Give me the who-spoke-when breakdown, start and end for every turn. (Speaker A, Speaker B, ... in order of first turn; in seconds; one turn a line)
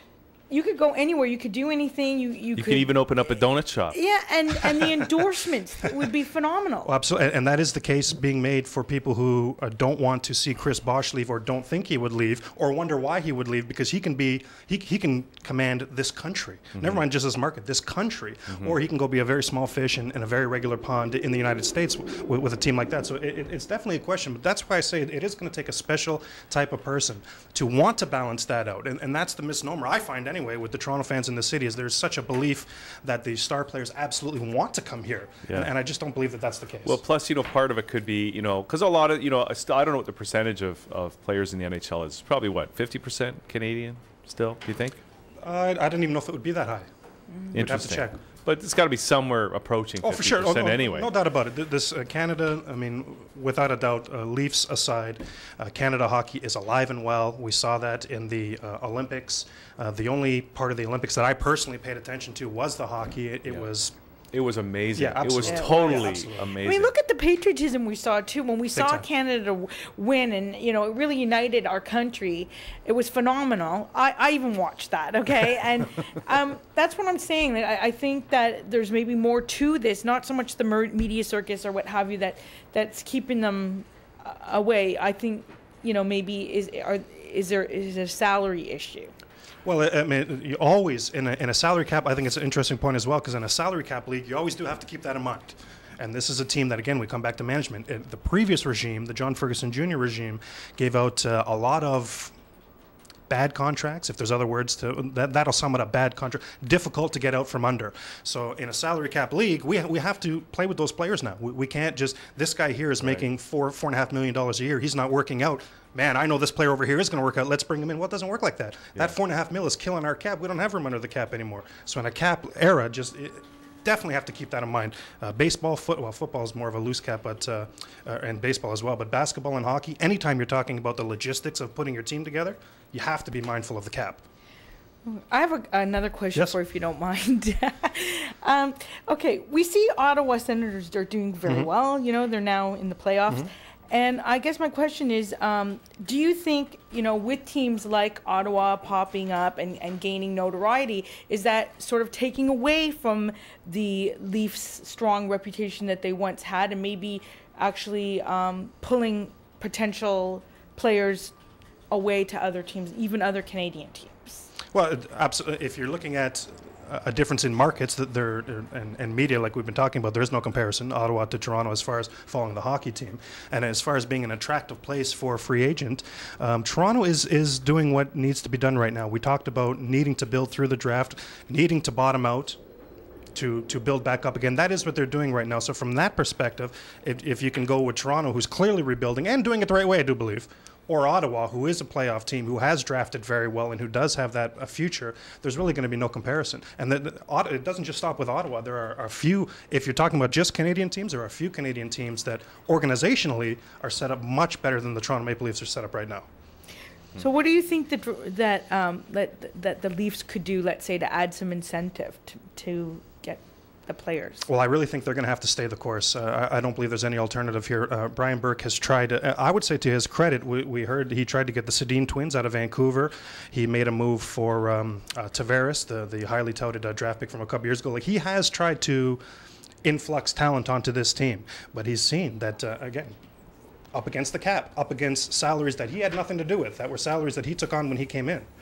Speaker A: 0.5-3.0
Speaker B: 2.6-4.0
Speaker A: 3.9-6.9
Speaker C: 4.7-5.1
Speaker C: 6.8-37.0
Speaker B: 16.8-17.0
Speaker B: 18.5-18.8
Speaker B: 36.9-45.0
Speaker C: 45.4-46.9
Speaker C: 47.5-48.2
Speaker B: 47.5-51.1
Speaker C: 50.0-63.9
Speaker B: 64.3-66.9
Speaker C: 65.0-66.5
Speaker A: 65.5-89.1
Speaker C: 68.8-69.1
Speaker C: 89.7-102.3
Speaker C: 103.3-134.2
Speaker A: 135.1-161.3
Speaker A: 161.9-164.5
Speaker C: 164.7-182.6
Speaker C: 183.3-206.2
Speaker A: 207.2-214.5
Speaker C: 214.4-229.2
Speaker C: 229.8-233.2
Speaker C: 233.9-238.5